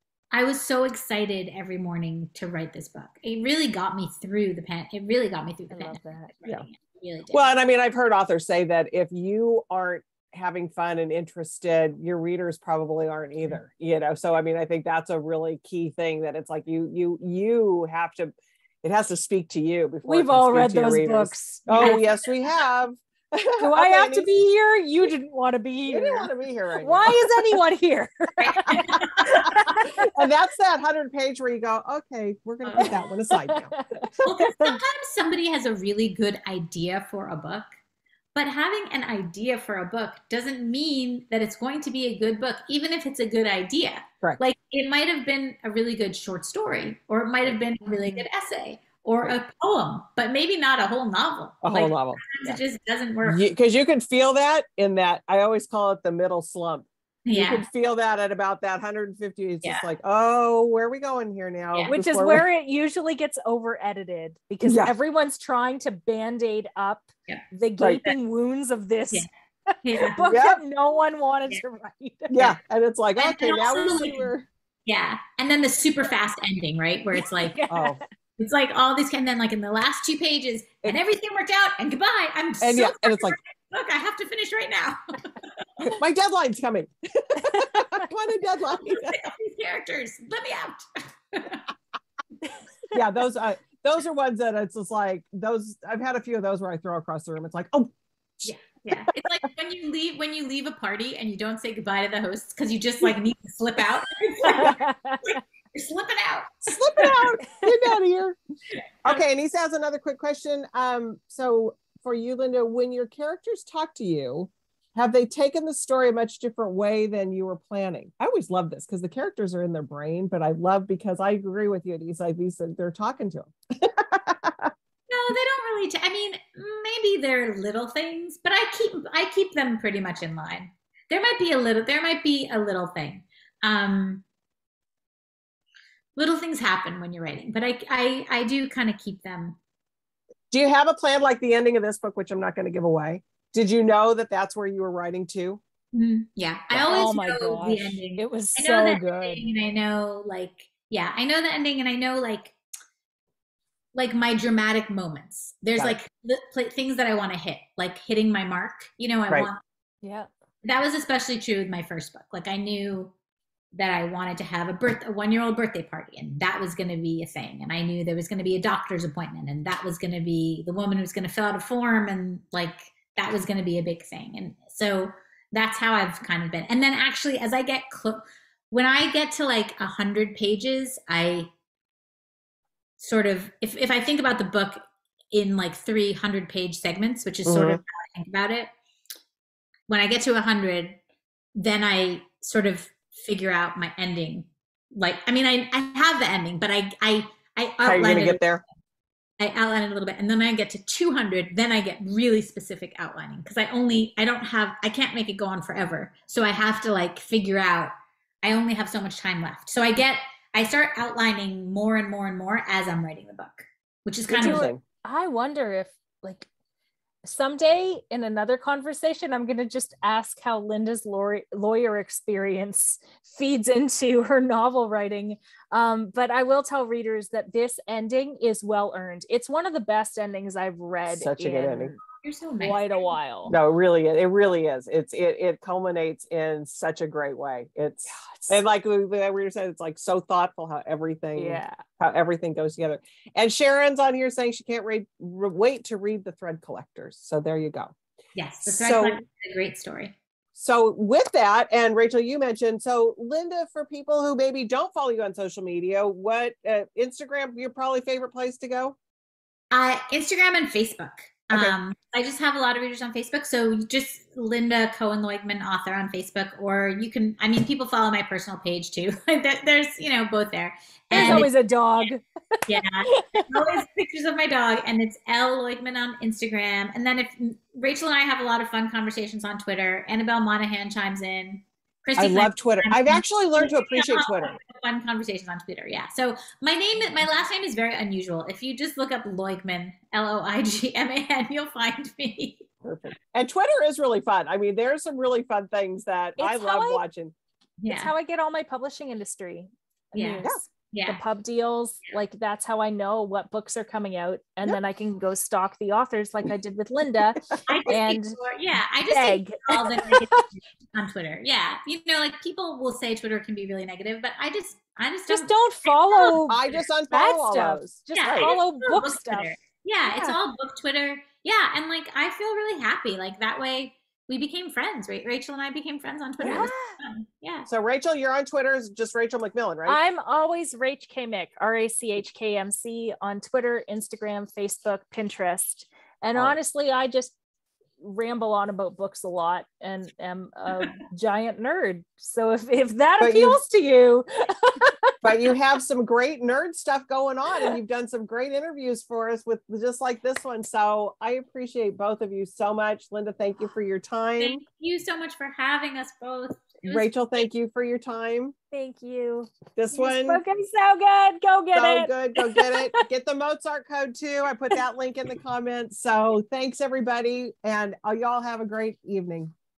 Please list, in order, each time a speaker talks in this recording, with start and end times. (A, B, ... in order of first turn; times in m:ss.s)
0:00.3-0:07.4 A
0:05.7-0:06.3 B
0:07.3-0:24.3 C
0:20.0-0:22.0 B
0:23.6-0:26.3 B
0:25.9-0:27.5 C
0:26.8-0:30.1 B
0:28.4-0:29.9 A
0:28.8-0:29.5 C
0:30.0-0:33.7 C
0:32.6-0:32.9 A
0:33.3-0:34.2 B
0:34.2-0:37.7 A
0:38.3-0:53.4 A
0:51.6-0:52.6 C
0:53.2-1:02.4 C
0:57.2-0:57.6 A
1:01.9-1:12.5 B
1:04.6-1:04.9 C
1:07.8-1:08.1 C
1:09.8-1:10.3 A
1:10.2-1:10.6 C
1:12.3-1:14.4 C
1:13.2-1:14.3 A
1:14.8-1:17.6 A
1:17.2-1:18.0 B
1:17.7-1:18.0 C
1:18.4-1:25.6 A
1:22.6-1:23.4 C
1:25.8-1:29.2 C
1:27.4-1:28.0 B
1:28.8-1:31.6 A
1:32.9-1:37.9 C
1:38.4-1:47.2 A
1:44.6-1:45.3 B
1:46.7-1:48.4 C
1:49.0-2:04.7 C
2:05.1-2:14.2 A
2:16.2-2:19.6 A
2:20.5-2:25.6 C
2:25.9-2:32.5 A
2:26.7-2:27.0 C
2:26.8-2:29.4 B
2:33.9-2:39.6 A
2:40.0-2:40.3 B
2:40.6-2:43.1 A
2:43.7-3:01.5 A
3:03.0-3:04.8 A
3:05.3-3:08.7 A
3:07.4-3:07.8 C
3:09.9-3:11.0 A
3:11.6-3:18.6 A
3:17.8-3:18.6 C
3:19.4-3:27.9 A
3:28.4-3:34.7 A
3:34.3-3:34.8 C
3:34.4-3:36.5 B
3:37.2-3:52.0 B
3:51.1-3:51.9 C
3:52.1-3:53.0 A
3:52.6-3:53.5 B
3:53.5-4:07.9 C
3:58.1-3:58.6 B
4:01.4-4:01.8 B
4:08.4-4:10.1 A
4:08.7-4:09.2 C
4:10.5-4:19.0 C
4:19.7-4:31.5 A
4:31.1-4:31.4 C
4:31.1-4:33.5 B
4:32.7-4:52.7 A
4:42.2-4:44.6 C
4:52.8-4:57.3 C
4:56.4-4:57.0 B
4:57.8-4:58.1 A
4:57.9-5:08.4 B
5:00.1-5:01.2 A
5:07.7-5:16.4 A
5:09.1-5:10.4 B
5:15.3-5:19.6 B
5:16.4-5:18.5 C
5:18.1-5:27.7 A
5:26.4-5:26.7 C
5:26.4-5:27.0 B
5:27.7-5:30.0 C
5:29.8-5:37.4 B
5:38.0-5:45.1 B
5:43.2-5:43.6 C
5:45.2-5:54.6 C
5:54.4-5:57.1 A
5:56.8-5:58.5 C
5:58.7-6:03.0 B
5:59.8-6:00.4 C
6:01.7-6:09.5 C